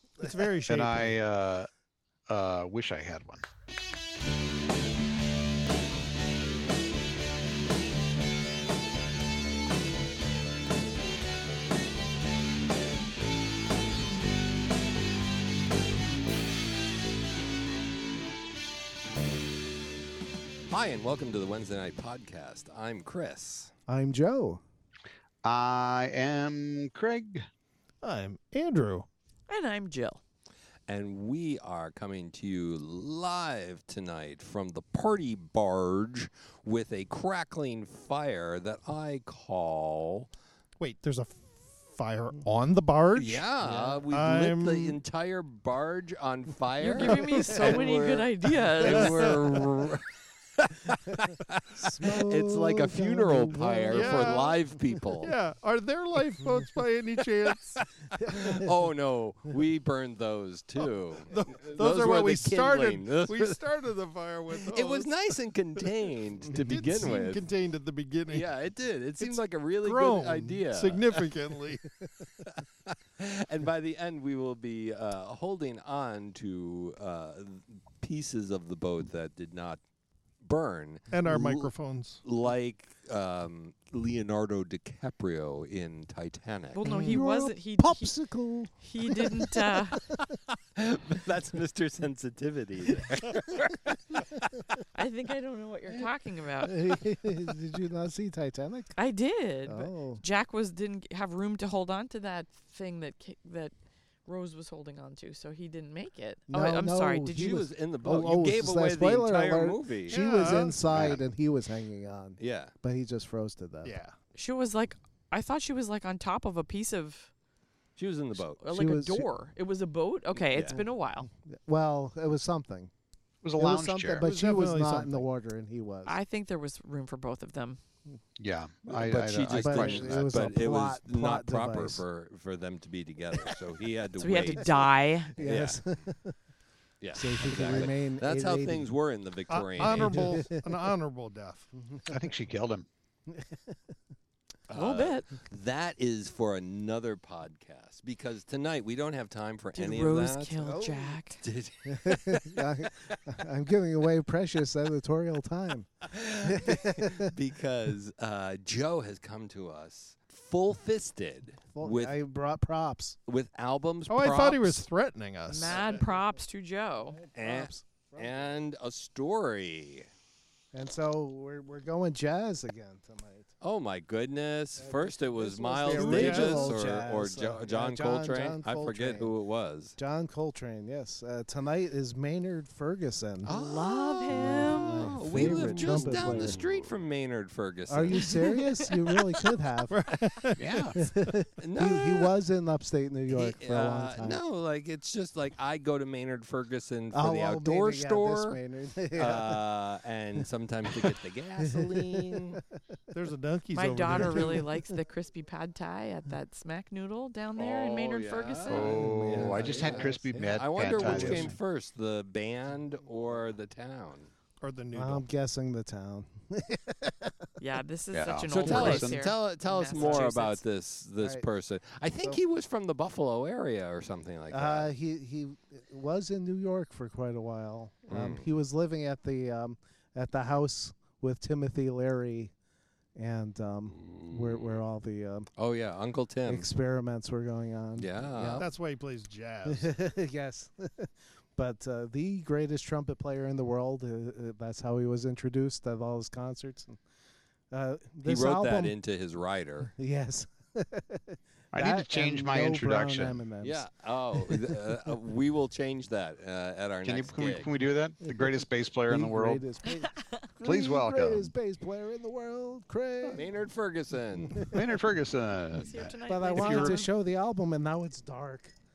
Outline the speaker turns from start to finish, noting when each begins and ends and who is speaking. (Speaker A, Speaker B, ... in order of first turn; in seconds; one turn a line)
Speaker A: 0.2-1.2
Speaker B: 0.7-1.7
Speaker B: 2.3-3.4
Speaker C: 20.7-23.7
Speaker D: 23.9-24.6
Speaker B: 25.4-27.4
Speaker A: 28.0-29.1
Speaker E: 29.5-30.2
Speaker C: 30.9-40.3
Speaker A: 40.8-43.5
Speaker C: 43.1-50.0
Speaker D: 43.6-44.0
Speaker A: 44.1-45.0
Speaker E: 46.8-49.2
Speaker A: 47.0-47.8
Speaker A: 48.8-49.5
Speaker C: 50.6-55.3
Speaker D: 51.1-54.5
Speaker A: 53.9-54.6
Speaker A: 55.2-57.8
Speaker C: 57.8-63.6
Speaker D: 58.1-58.7
Speaker A: 61.2-65.2
Speaker C: 64.5-67.4
Speaker D: 66.5-66.9
Speaker A: 66.5-68.5
Speaker C: 68.3-71.1
Speaker A: 69.2-71.8
Speaker C: 73.2-79.8
Speaker C: 80.4-81.7
Speaker A: 81.1-82.2
Speaker C: 82.2-86.8
Speaker E: 86.7-88.2
Speaker D: 86.8-89.8
Speaker E: 88.7-90.0
Speaker C: 90.8-94.4
Speaker E: 94.9-96.7
Speaker D: 96.6-99.0
Speaker E: 99.0-103.7
Speaker D: 99.6-100.2
Speaker E: 104.2-107.6
Speaker D: 106.5-113.9
Speaker C: 107.4-110.2
Speaker A: 110.1-110.8
Speaker C: 112.4-112.7
Speaker A: 113.8-114.2
Speaker E: 114.3-117.3
Speaker C: 118.0-118.7
Speaker D: 118.4-119.3
Speaker E: 118.6-121.3
Speaker C: 120.5-120.8
Speaker D: 121.5-122.9
Speaker B: 123.4-124.3
Speaker D: 123.5-126.2
Speaker A: 124.2-125.2
Speaker E: 126.0-127.8
Speaker B: 128.4-130.3
Speaker C: 128.9-135.8
Speaker D: 129.5-132.0
Speaker E: 134.2-135.4
Speaker D: 135.4-136.3
Speaker C: 137.0-140.4
Speaker D: 137.1-138.9
Speaker A: 137.5-137.9
Speaker A: 139.5-141.7
Speaker D: 139.8-140.6
Speaker D: 141.7-142.2
Speaker B: 142.1-142.9
Speaker D: 143.3-143.8
Speaker C: 144.7-150.6
Speaker E: 144.8-145.3
Speaker E: 149.7-151.4
Speaker D: 150.6-151.2
Speaker C: 151.4-152.6
Speaker D: 151.8-157.2
Speaker C: 156.1-162.2
Speaker D: 161.7-163.2
Speaker C: 163.3-164.8
Speaker A: 164.1-166.1
Speaker E: 165.5-167.2
Speaker D: 165.5-165.8
Speaker D: 167.1-168.6
Speaker C: 167.3-170.1
Speaker D: 170.7-173.5
Speaker C: 173.6-179.9
Speaker D: 174.8-179.3
Speaker A: 175.9-176.8
Speaker D: 179.9-183.6
Speaker C: 183.4-188.3
Speaker E: 183.5-184.8
Speaker D: 184.3-186.7
Speaker D: 187.9-189.9
Speaker E: 188.2-188.8
Speaker A: 189.9-190.9
Speaker B: 190.6-190.9
Speaker D: 190.9-194.4
Speaker C: 191.6-192.3
Speaker C: 193.3-198.6
Speaker D: 197.1-199.7
Speaker C: 199.1-202.6
Speaker D: 200.9-202.6
Speaker A: 203.1-204.7
Speaker E: 203.7-209.2
Speaker D: 204.1-204.8
Speaker C: 207.6-214.3
Speaker B: 208.6-211.6
Speaker D: 208.9-210.3
Speaker D: 210.9-211.5
Speaker A: 214.6-215.2
Speaker D: 214.9-217.3
Speaker E: 217.6-220.6
Speaker B: 218.1-219.2
Speaker C: 218.5-224.9
Speaker D: 219.9-220.2
Speaker D: 221.2-221.5
Speaker D: 224.5-232.5
Speaker C: 228.1-228.4
Speaker D: 233.2-235.5
Speaker C: 234.0-234.8
Speaker C: 235.6-236.7
Speaker D: 236.4-238.7
Speaker C: 238.0-238.7
Speaker A: 238.6-239.9
Speaker D: 239.7-247.0
Speaker D: 247.7-249.0
Speaker C: 248.2-249.9
Speaker D: 249.8-254.8
Speaker B: 251.7-253.4
Speaker C: 253.6-257.7
Speaker B: 257.0-259.6
Speaker D: 258.2-263.5
Speaker B: 260.6-261.5
Speaker C: 263.3-264.6
Speaker D: 264.4-264.9
Speaker B: 264.7-267.0
Speaker E: 265.7-267.1
Speaker D: 266.2-268.7